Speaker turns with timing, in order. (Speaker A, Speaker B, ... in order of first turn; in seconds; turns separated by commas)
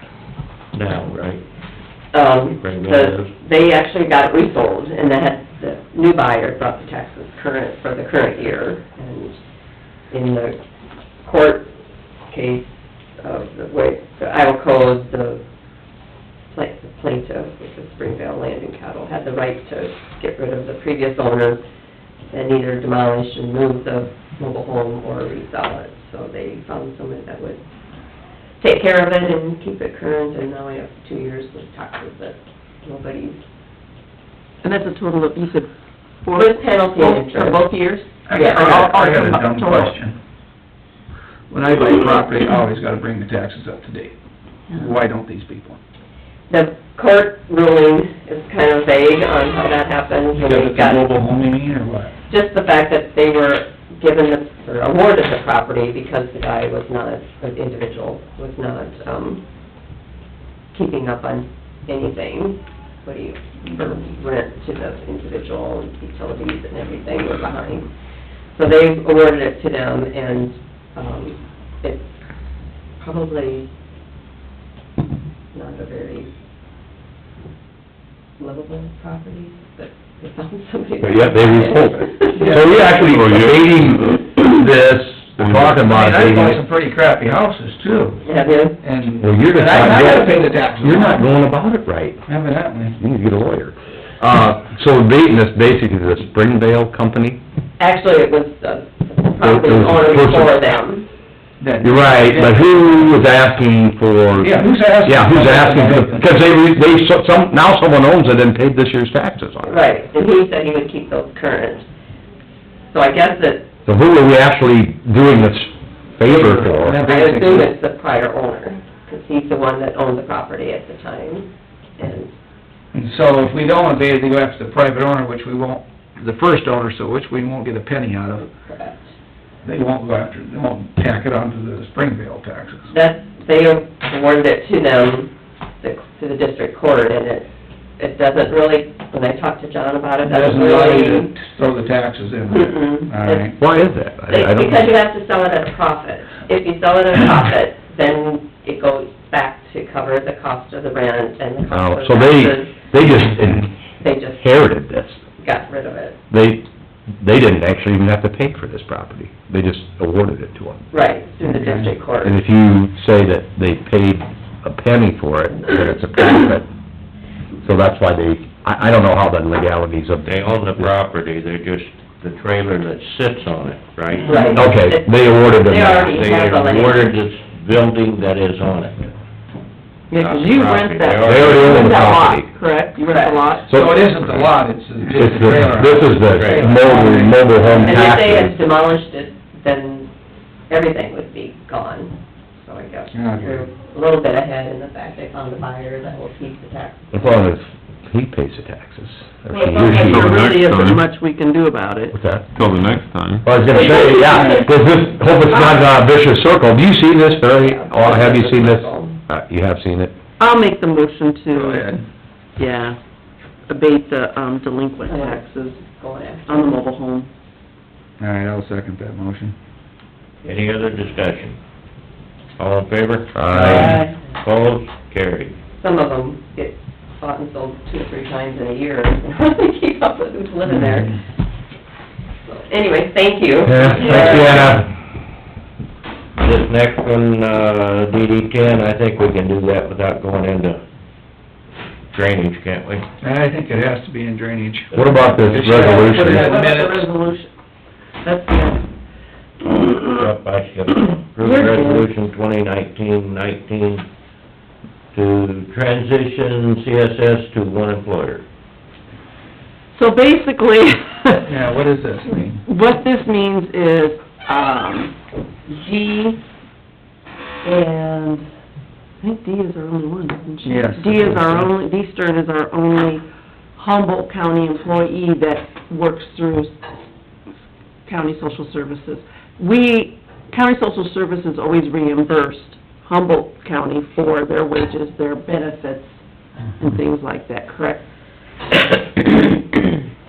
Speaker A: 0.7-1.4, Speaker B: 2.1-9.4, Speaker A: 2.6-3.3, Speaker B: 10.1-10.6, Speaker B: 11.2-11.7, Speaker B: 12.3-15.4, Speaker B: 16.5-21.6, Speaker B: 22.3-27.6, Speaker B: 28.6-33.4, Speaker C: 34.6-35.7, Speaker C: 36.2-40.0, Speaker B: 36.3-37.6, Speaker D: 38.3-40.2, Speaker B: 38.3-38.9, Speaker D: 41.5-44.1, Speaker D: 44.7-45.8, Speaker B: 46.5-51.0, Speaker D: 50.3-52.1, Speaker B: 52.3-59.4, Speaker B: 60.7-67.9, Speaker B: 68.5-72.1, Speaker B: 73.0-73.7, Speaker B: 75.5-76.3, Speaker B: 78.4-82.9, Speaker E: 81.0-86.6, Speaker D: 82.3-82.7, Speaker F: 82.7-83.8, Speaker F: 85.4-85.8, Speaker D: 85.8-88.2, Speaker B: 88.2-88.8, Speaker D: 88.8-91.4, Speaker E: 89.2-92.3, Speaker B: 89.7-90.5, Speaker D: 92.2-93.0, Speaker E: 93.0-97.4, Speaker B: 97.8-101.1, Speaker E: 99.4-100.5, Speaker D: 101.6-103.2, Speaker E: 101.8-109.8, Speaker D: 104.4-106.4, Speaker B: 109.7-111.8, Speaker B: 112.9-113.7, Speaker E: 113.8-117.0, Speaker D: 116.2-117.7, Speaker B: 117.0-122.3, Speaker D: 122.9-128.5, Speaker B: 128.5-129.1, Speaker D: 129.6-132.9, Speaker B: 132.9-141.3, Speaker D: 140.2-143.6, Speaker B: 142.5-143.5, Speaker E: 143.6-144.9, Speaker B: 144.3-153.0, Speaker E: 151.7-153.7, Speaker B: 154.0-154.4, Speaker E: 154.4-155.2, Speaker B: 155.4-156.2, Speaker E: 156.3-156.7, Speaker E: 157.2-160.8, Speaker B: 160.9-162.4, Speaker D: 161.4-161.9, Speaker E: 162.2-166.7, Speaker E: 167.6-170.9, Speaker A: 170.2-174.3, Speaker C: 174.2-174.6, Speaker B: 174.2-177.1, Speaker E: 174.5-176.2, Speaker A: 176.1-179.1, Speaker C: 180.1-183.9, Speaker A: 180.1-182.1, Speaker E: 181.2-182.5, Speaker B: 183.0-183.6, Speaker E: 183.7-184.1, Speaker D: 183.7-187.5, Speaker E: 185.1-188.6, Speaker A: 186.3-186.7, Speaker B: 187.6-190.1, Speaker B: 190.7-197.5, Speaker D: 193.1-193.7, Speaker E: 197.1-200.5, Speaker C: 199.5-202.2, Speaker F: 199.8-201.1, Speaker E: 202.1-202.5, Speaker F: 202.5-203.5, Speaker E: 203.4-210.1, Speaker D: 203.9-204.7, Speaker C: 203.9-204.5, Speaker B: 207.1-209.2, Speaker C: 210.4-211.9, Speaker D: 211.5-212.1, Speaker C: 212.6-213.0, Speaker C: 213.7-215.8, Speaker B: 215.1-216.8, Speaker C: 216.4-217.3, Speaker D: 218.2-219.5, Speaker A: 220.4-221.6, Speaker A: 222.6-225.5, Speaker E: 223.3-224.0, Speaker C: 223.6-224.1, Speaker B: 225.8-231.2, Speaker B: 232.4-234.7, Speaker E: 233.6-234.9, Speaker A: 234.0-234.8, Speaker A: 236.3-240.8, Speaker A: 242.1-243.1, Speaker D: 243.2-247.1, Speaker E: 244.9-246.6, Speaker C: 245.1-247.5, Speaker C: 248.2-248.8, Speaker A: 249.6-254.1, Speaker C: 251.4-252.1, Speaker A: 255.1-258.4, Speaker C: 259.9-261.6, Speaker D: 261.5-262.6, Speaker C: 262.6-265.1, Speaker C: 265.7-266.4, Speaker C: 267.6-268.5, Speaker C: 269.2-273.2, Speaker D: 270.6-271.7, Speaker C: 273.8-276.8, Speaker C: 278.1-286.2, Speaker C: 286.8-288.0, Speaker C: 289.2-289.5